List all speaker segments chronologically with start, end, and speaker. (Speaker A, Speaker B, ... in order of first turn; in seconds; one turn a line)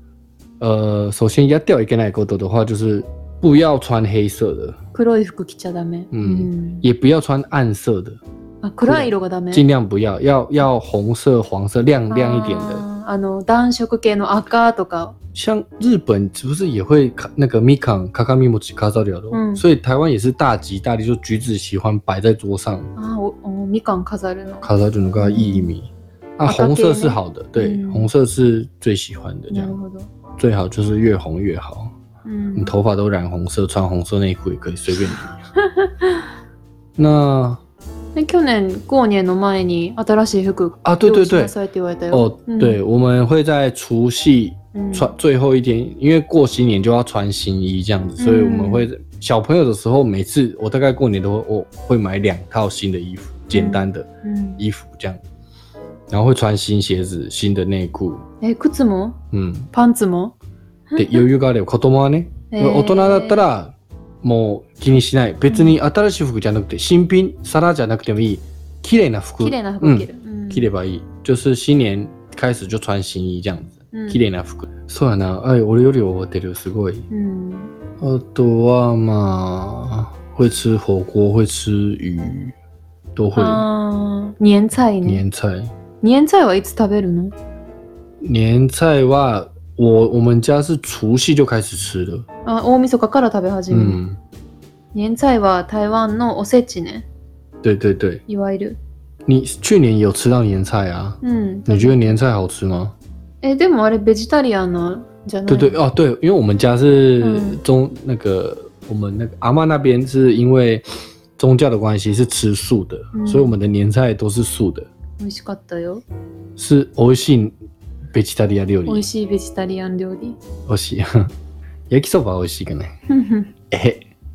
Speaker A: 0.6-4.8
Speaker B: 4.9-6.8
Speaker A: 6.1-8.2
Speaker B: 8.6-9.7
Speaker A: 8.8-12.8
Speaker B: 12.1-15.2
Speaker A: 15.3-22.9
Speaker B: 19.3-19.6
Speaker B: 23.0-25.7
Speaker A: 24.6-29.8
Speaker B: 26.4-28.1
Speaker B: 29.5-30.1
Speaker A: 30.4-31.9
Speaker B: 32.2-32.7
Speaker A: 32.6-35.4
Speaker B: 35.6-36.2
Speaker A: 37.0-37.6
Speaker B: 38.1-42.8
Speaker A: 40.8-41.5
Speaker A: 42.1-55.2
Speaker B: 44.7-45.1
Speaker B: 48.2-48.9
Speaker B: 53.5-54.6
Speaker A: 56.1-58.2
Speaker B: 58.4-59.2
Speaker A: 59.3-59.7
Speaker B: 59.7-60.3
Speaker B: 60.9-61.2
Speaker A: 61.0-77.1
Speaker B: 62.5-63.5
Speaker B: 65.5-65.8
Speaker B: 69.4-70.7
Speaker B: 73.9-74.2
Speaker B: 77.1-77.7
Speaker A: 78.0-82.5
Speaker A: 83.2-83.7
Speaker B: 83.4-85.2
Speaker A: 85.0-85.7
Speaker B: 86.0-87.3
Speaker A: 88.2-92.3
Speaker B: 92.5-94.0
Speaker A: 93.7-94.2
Speaker B: 94.9-97.1
Speaker A: 97.6-98.2
Speaker B: 98.3-98.8
Speaker A: 99.3-103.0
Speaker B: 101.2-102.2
Speaker B: 103.4-105.8
Speaker A: 105.5-110.8
Speaker B: 107.2-107.6
Speaker A: 111.4-114.9
Speaker B: 113.1-113.6
Speaker B: 115.2-116.0
Speaker A: 116.6-117.5
Speaker A: 118.1-119.1
Speaker B: 118.9-120.4
Speaker A: 120.7-121.3
Speaker A: 121.9-122.9
Speaker B: 123.1-123.5
Speaker A: 123.7-124.0